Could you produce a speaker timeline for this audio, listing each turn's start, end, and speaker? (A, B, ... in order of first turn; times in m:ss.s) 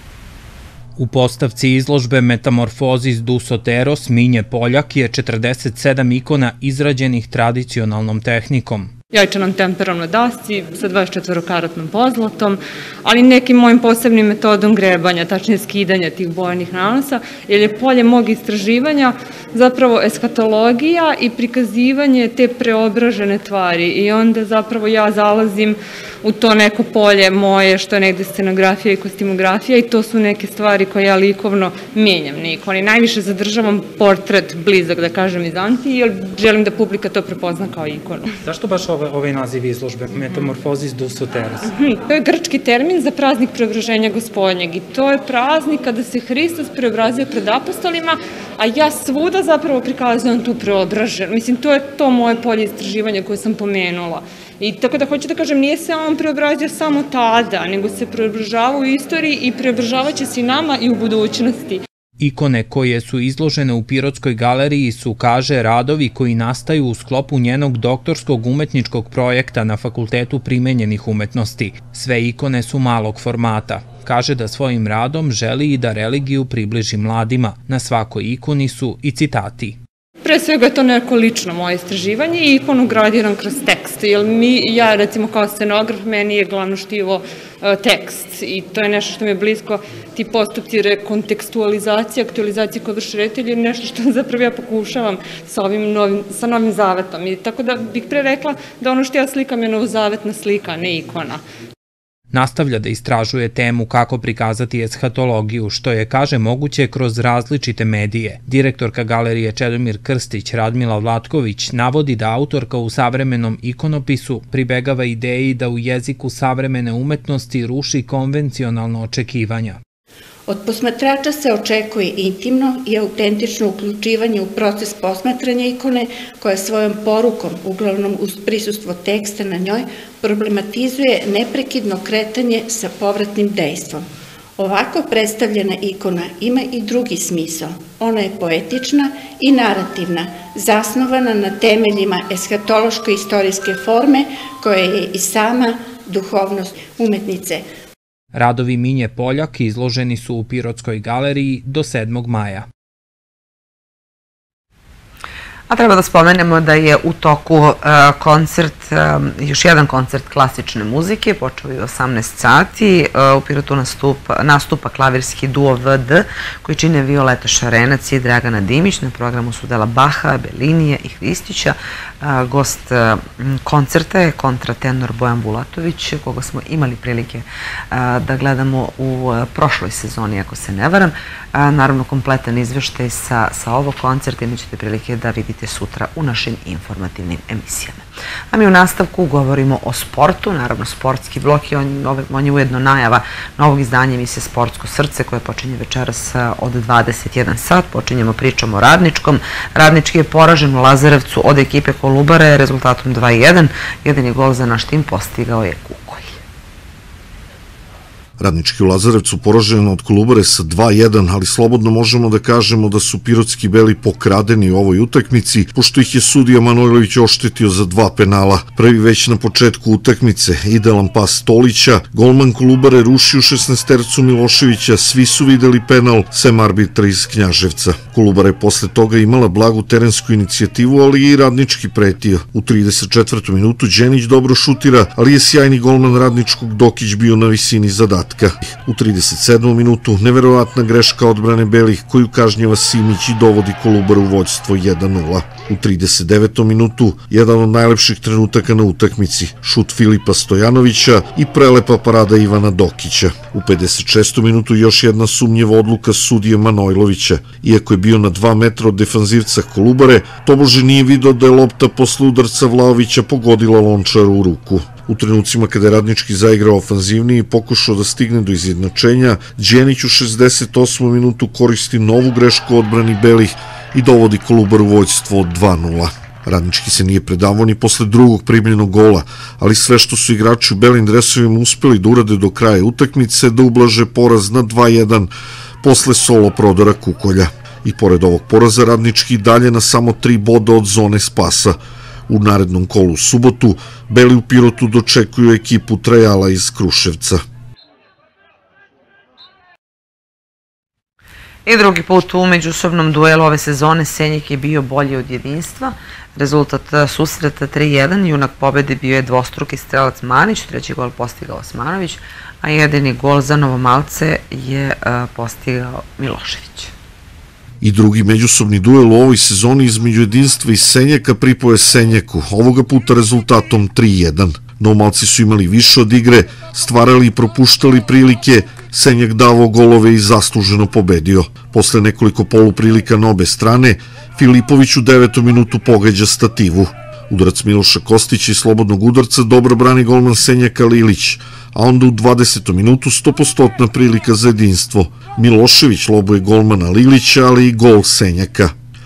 0:01.0-0:08.9 A
0:09.1-0:38.3 B
0:38.4-0:41.7 A
0:41.8-1:01.8 B
1:02.2-1:19.8 A
1:20.2-1:41.4 B
1:42.3-1:59.8 A
2:00.5-2:14.1 C
2:14.6-2:27.6 C
2:28.3-2:32.7 A
2:35.7-3:26.4 D
3:28.4-4:45.3 E
4:45.8-4:51.8 E
4:52.3-4:57.4 E
5:01.7-5:16.9 D
5:17.8-5:48.7 E